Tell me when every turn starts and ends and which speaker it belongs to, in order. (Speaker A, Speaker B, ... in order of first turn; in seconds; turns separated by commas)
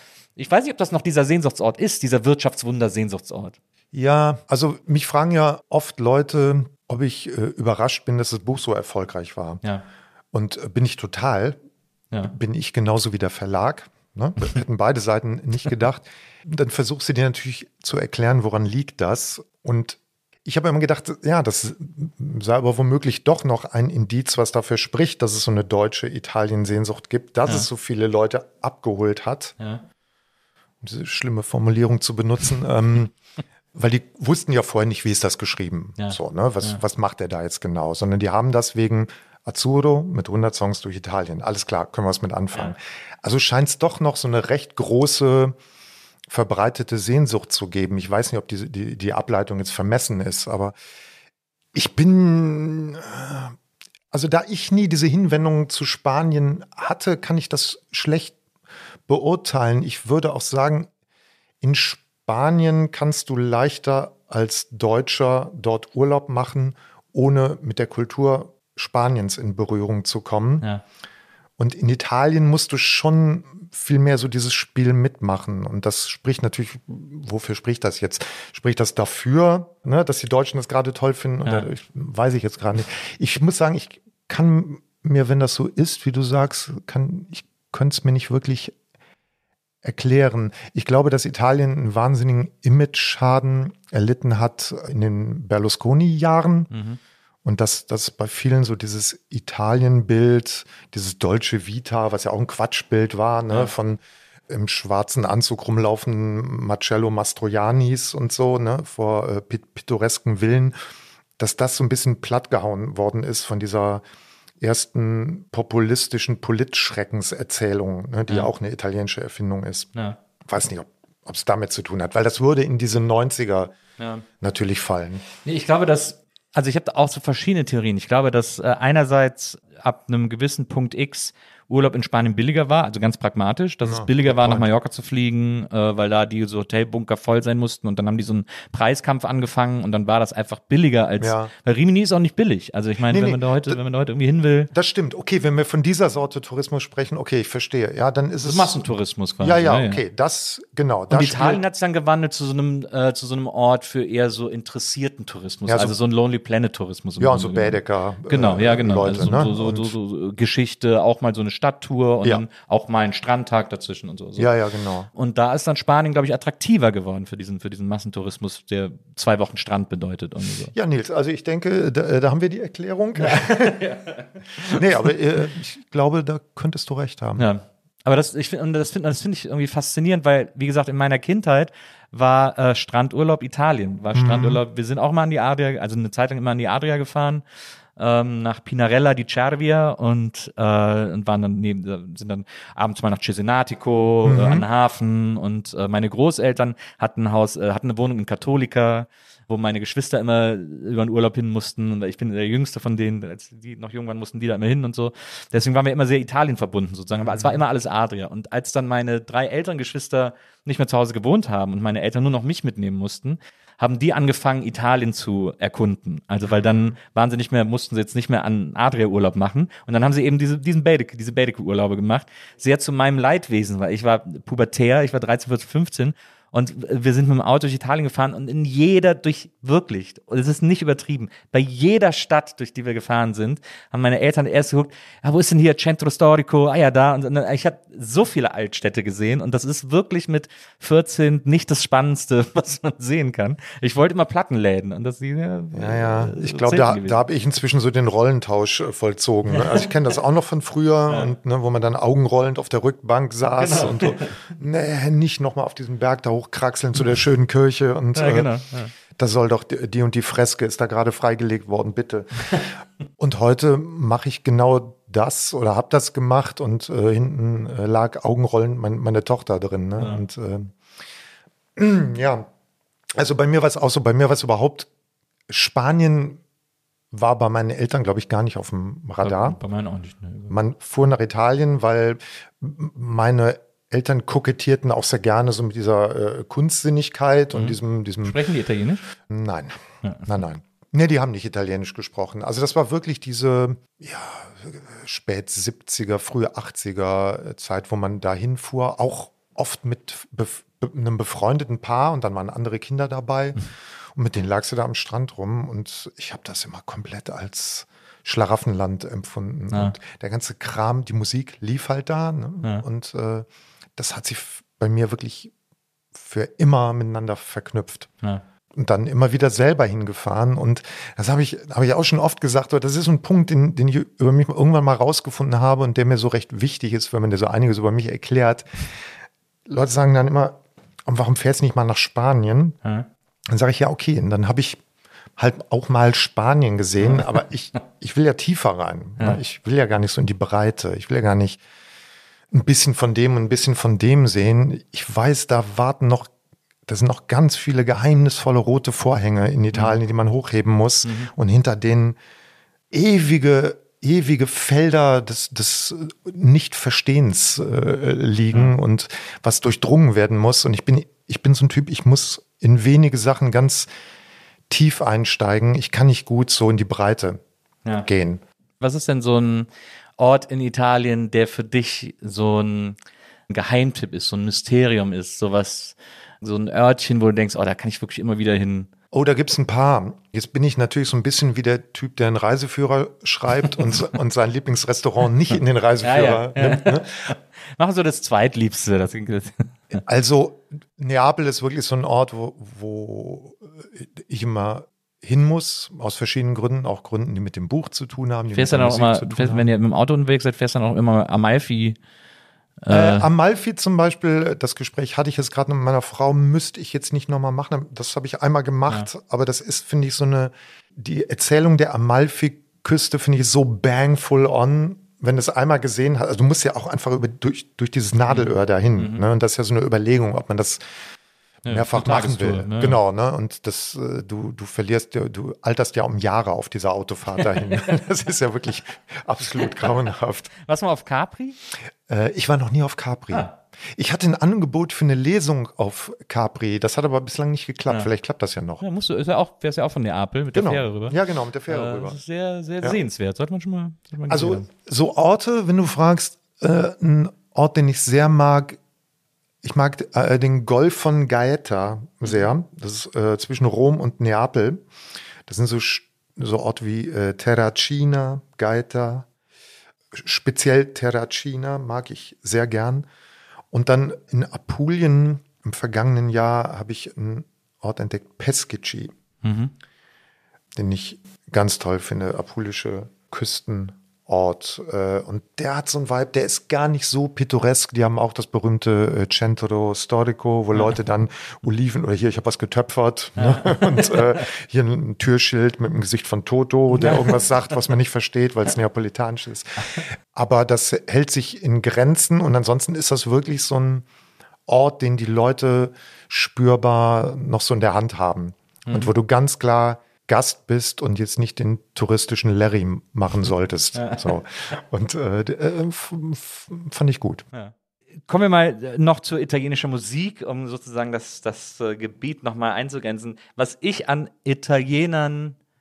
Speaker A: 0.4-3.5, Speaker B: 3.9-9.6, Speaker B: 10.3-11.6, Speaker B: 12.2-29.5, Speaker B: 30.8-33.1, Speaker B: 33.7-45.5, Speaker A: 36.0-36.8, Speaker B: 46.3-50.8, Speaker B: 51.7-53.5, Speaker B: 54.1-58.4, Speaker B: 59.1-60.9, Speaker B: 61.6-70.7, Speaker B: 71.6-88.7, Speaker B: 89.8-96.7, Speaker A: 96.7-97.0, Speaker B: 97.4-110.8, Speaker B: 111.4-114.0, Speaker B: 114.6-123.7, Speaker A: 124.0-124.2, Speaker B: 124.4-125.2, Speaker A: 125.4-144.7, Speaker B: 133.8-134.7, Speaker B: 141.2-141.5, Speaker B: 143.0-143.8, Speaker B: 144.7-148.8, Speaker A: 148.4-150.0, Speaker B: 149.4-151.6, Speaker A: 151.1-164.5, Speaker B: 155.7-155.9, Speaker B: 157.2-159.9, Speaker B: 164.4-165.1, Speaker A: 165.1-170.7, Speaker B: 170.7-173.8, Speaker A: 173.2-174.8, Speaker B: 174.7-177.5, Speaker A: 177.4-187.4, Speaker B: 184.1-184.6, Speaker A: 188.0-247.2, Speaker B: 194.2-194.7, Speaker B: 207.2-207.6, Speaker B: 216.4-216.9, Speaker B: 245.7-270.7, Speaker A: 249.5-249.8, Speaker A: 253.5-254.3, Speaker A: 258.1-258.9, Speaker A: 270.0-270.2, Speaker B: 271.8-272.5, Speaker B: 273.1-274.9, Speaker B: 275.5-276.4, Speaker B: 277.1-279.6, Speaker A: 279.2-280.5, Speaker B: 280.5-288.4, Speaker A: 287.5-289.0, Speaker B: 289.2-303.6, Speaker B: 304.1-315.5, Speaker B: 316.1-318.1, Speaker B: 318.7-328.7, Speaker B: 329.6-332.8, Speaker B: 333.5-334.8, Speaker B: 335.4-341.6, Speaker A: 337.0-337.3, Speaker B: 342.5-346.3, Speaker B: 346.9-352.2, Speaker A: 351.0-351.3, Speaker B: 352.9-363.9, Speaker B: 364.7-367.4, Speaker B: 368.0-368.4, Speaker A: 368.8-369.7, Speaker A: 370.2-372.9, Speaker A: 373.5-378.9, Speaker B: 379.1-387.3, Speaker A: 386.0-390.0, Speaker B: 390.0-399.6, Speaker A: 398.5-402.0, Speaker A: 402.8-403.3, Speaker B: 402.9-421.0, Speaker A: 418.3-419.2, Speaker A: 421.6-423.0, Speaker B: 421.7-430.5, Speaker A: 430.6-431.6, Speaker B: 432.1-438.8, Speaker A: 438.8-441.2, Speaker B: 440.5-442.2, Speaker A: 441.7-444.7, Speaker B: 444.3-448.8, Speaker B: 449.6-454.8, Speaker B: 455.5-459.3, Speaker B: 460.1-463.1, Speaker B: 463.7-469.1, Speaker A: 469.4-469.7, Speaker B: 470.7-494.0, Speaker A: 483.4-484.4, Speaker A: 486.9-487.4, Speaker B: 494.7-507.4, Speaker A: 503.9-504.4, Speaker A: 508.3-515.5